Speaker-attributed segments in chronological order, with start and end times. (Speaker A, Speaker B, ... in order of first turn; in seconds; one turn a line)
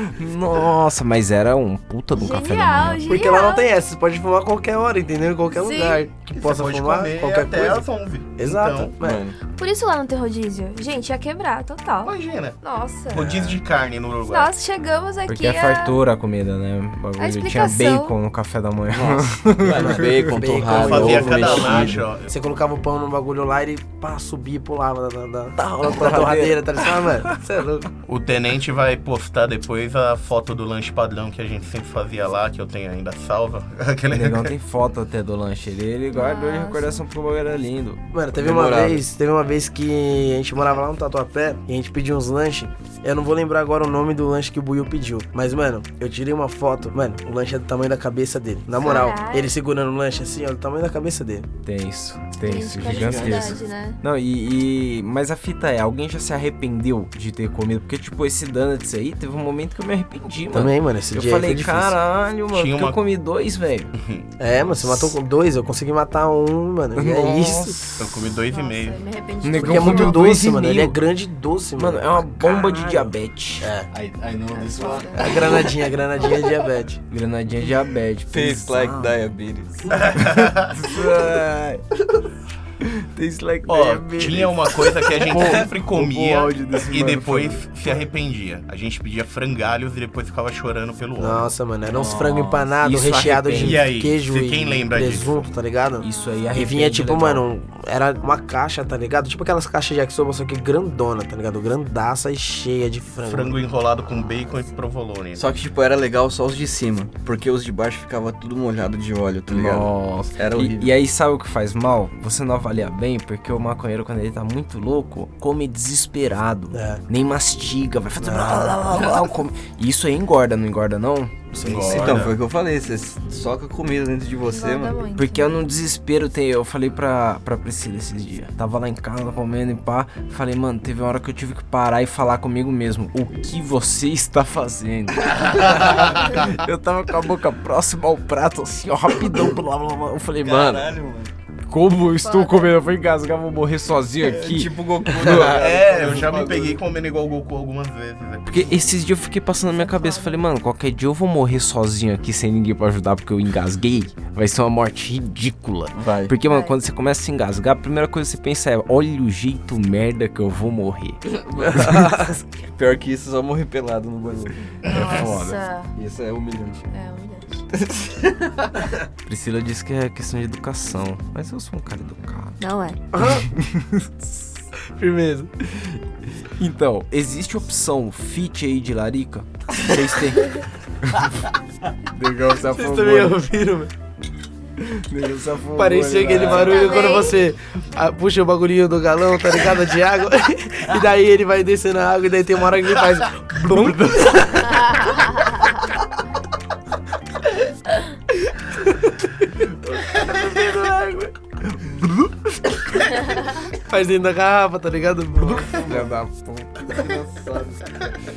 Speaker A: 0.2-3.0
Speaker B: 2.1-3.7
Speaker C: 3.1-9.2
Speaker B: 5.6-6.0
Speaker D: 6.3-8.9
Speaker E: 9.0-9.4
Speaker B: 9.5-13.5
Speaker D: 12.0-12.6
Speaker D: 13.1-14.5
Speaker C: 13.1-13.5
Speaker B: 14.3-16.0
Speaker A: 15.3-20.4
Speaker B: 17.2-18.1
Speaker E: 18.9-22.0
Speaker C: 19.7-27.9
Speaker D: 20.7-22.3
Speaker A: 25.6-26.8
Speaker D: 28.1-34.5
Speaker A: 34.1-38.0
Speaker B: 36.1-37.0
Speaker C: 38.1-51.5
Speaker E: 38.4-39.0
Speaker B: 48.8-49.5
Speaker A: 51.6-63.9
Speaker B: 52.4-54.0
Speaker E: 52.8-53.5
Speaker C: 60.5-62.0
Speaker D: 62.5-63.0
Speaker D: 64.0-65.1
Speaker C: 64.4-67.8
Speaker A: 66.9-68.3
Speaker D: 68.0-69.0
Speaker B: 68.5-70.2
Speaker A: 69.4-71.0
Speaker C: 69.6-73.9
Speaker A: 71.8-73.7
Speaker E: 73.9-75.7
Speaker B: 74.5-75.5
Speaker C: 75.1-77.0
Speaker A: 77.1-79.1
Speaker E: 78.3-80.0
Speaker D: 79.9-80.8
Speaker A: 80.2-81.8
Speaker A: 82.8-87.6
Speaker D: 83.7-91.5
Speaker C: 84.2-84.4
Speaker C: 91.2-103.6
Speaker E: 91.9-92.5
Speaker A: 92.0-93.9
Speaker D: 93.5-95.5
Speaker A: 96.0-97.4
Speaker D: 103.2-105.5
Speaker E: 105.3-110.9
Speaker A: 109.5-122.2
Speaker C: 116.7-117.0
Speaker C: 118.2-118.9
Speaker D: 121.6-122.4
Speaker E: 121.7-125.0
Speaker B: 124.4-125.5
Speaker A: 125.2-140.9
Speaker D: 135.5-136.4
Speaker E: 140.4-141.3
Speaker A: 141.7-145.6
Speaker B: 142.2-142.7
Speaker E: 144.2-146.8
Speaker D: 145.2-148.8
Speaker A: 148.4-161.2
Speaker B: 149.7-150.4
Speaker E: 155.9-156.3
Speaker B: 156.4-156.8
Speaker E: 161.2-164.6
Speaker A: 161.7-162.3
Speaker C: 161.9-162.2
Speaker B: 164.8-165.9
Speaker A: 164.9-165.6
Speaker E: 165.9-166.8
Speaker B: 166.9-167.7
Speaker E: 167.7-168.8
Speaker A: 169.2-172.6
Speaker B: 172.6-173.0
Speaker C: 173.1-173.4
Speaker A: 173.2-174.3
Speaker C: 174.9-175.5
Speaker A: 176.4-181.3
Speaker A: 182.1-183.4
Speaker C: 182.5-183.9
Speaker A: 184.9-186.9
Speaker C: 185.7-195.0
Speaker B: 186.5-187.4
Speaker C: 198.7-199.1
Speaker C: 200.1-200.9
Speaker A: 200.7-201.3
Speaker C: 203.7-205.9
Speaker A: 205.4-206.8
Speaker E: 206.9-207.9